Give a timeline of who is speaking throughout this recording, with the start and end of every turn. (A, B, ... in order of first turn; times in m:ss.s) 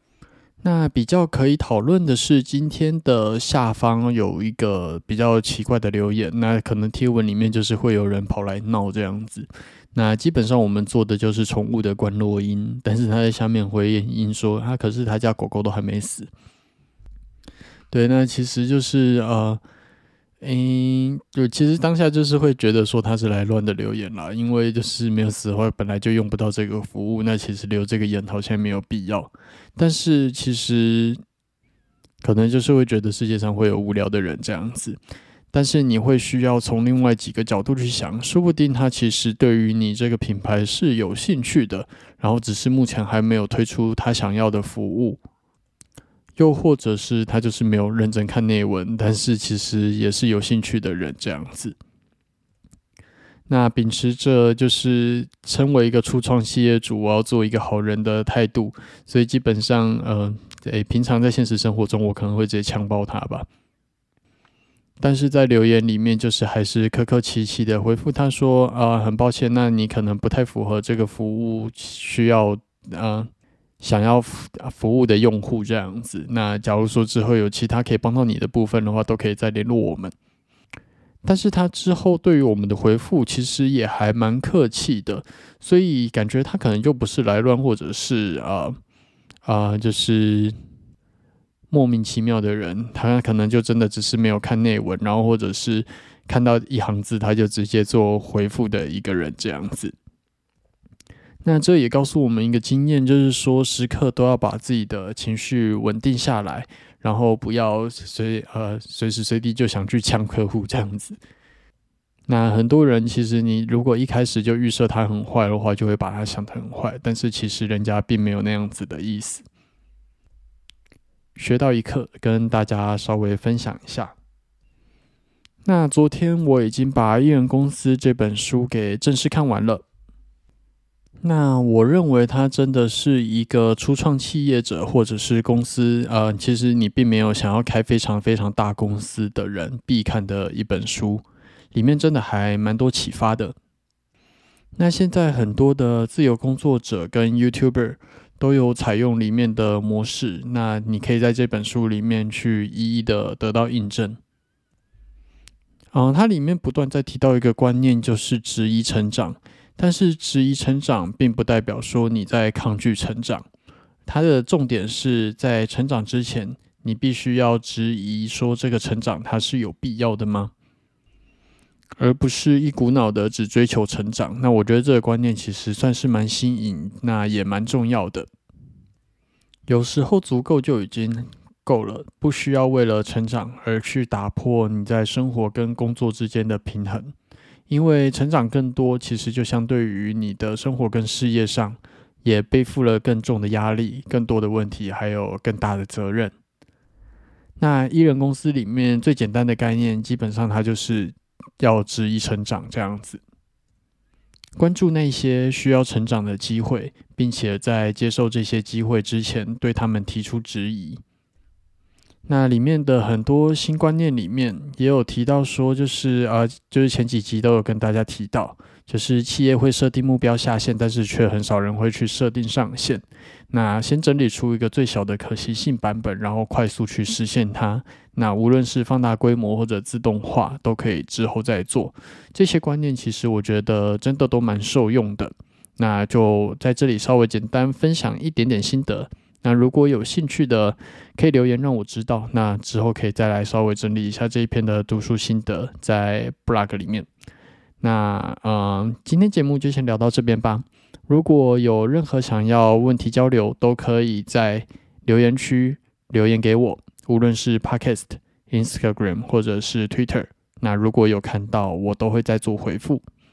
0:00.6-0:16.3 A
0:17.9-0:19.6 A
0:20.4-0:31.2 A
0:32.2-0:35.0 A
0:35.5-0:45.2 A
0:46.4-0:51.8 A
0:53.5-1:03.5 A
1:05.0-1:13.3 A
1:13.8-1:20.1 A
1:21.2-1:28.8 A
1:29.4-1:30.6 A
1:31.7-1:40.0 A
1:41.4-1:51.2 A
1:52.3-1:59.4 A
2:01.4-2:04.2 A
2:05.6-2:09.8 A
2:11.2-2:23.6 A
2:24.8-2:34.2 A
2:35.9-2:43.5 A
2:44.1-2:50.5 A
2:52.0-2:58.3 A
2:59.7-3:07.1 A
3:07.7-3:16.3 A
3:17.6-3:23.2 A
3:24.6-3:31.0 A
3:32.3-4:07.1 A
4:07.8-4:23.0 A